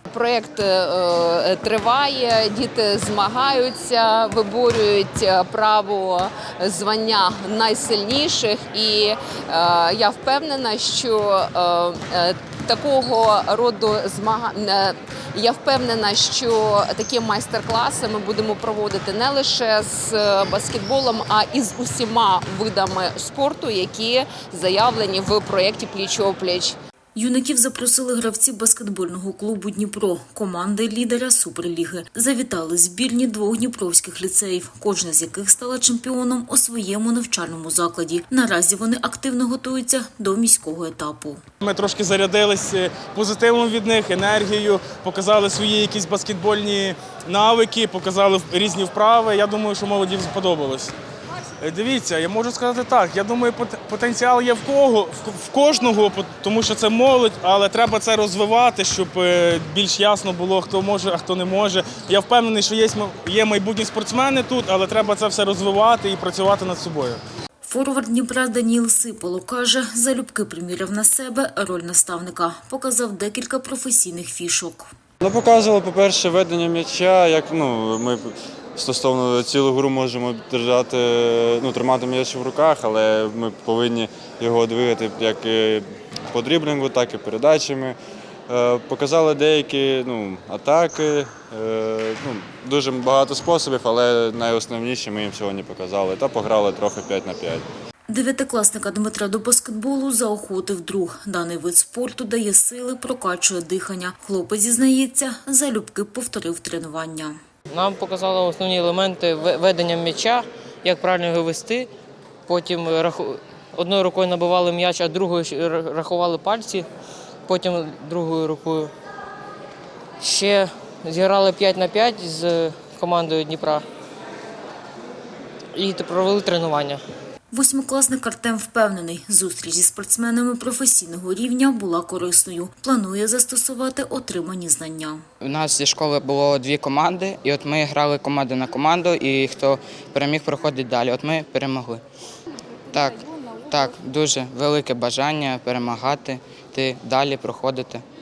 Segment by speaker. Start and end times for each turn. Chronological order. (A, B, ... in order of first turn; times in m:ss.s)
0:00.1-0:26.8 A
0:27.2-0:41.4 B
0:41.6-0:50.9 C
0:51.6-1:07.2 C
1:07.6-1:14.9 B
1:15.2-1:28.0 D
1:28.5-1:37.6 D
1:38.1-1:47.4 B
1:47.7-1:51.9 E
1:52.5-1:56.9 E
1:57.5-1:58.9 E
2:00.2-2:03.8 E
2:05.7-2:07.0 E
2:07.5-2:15.2 B
2:15.4-2:22.0 F
2:22.9-2:28.0 F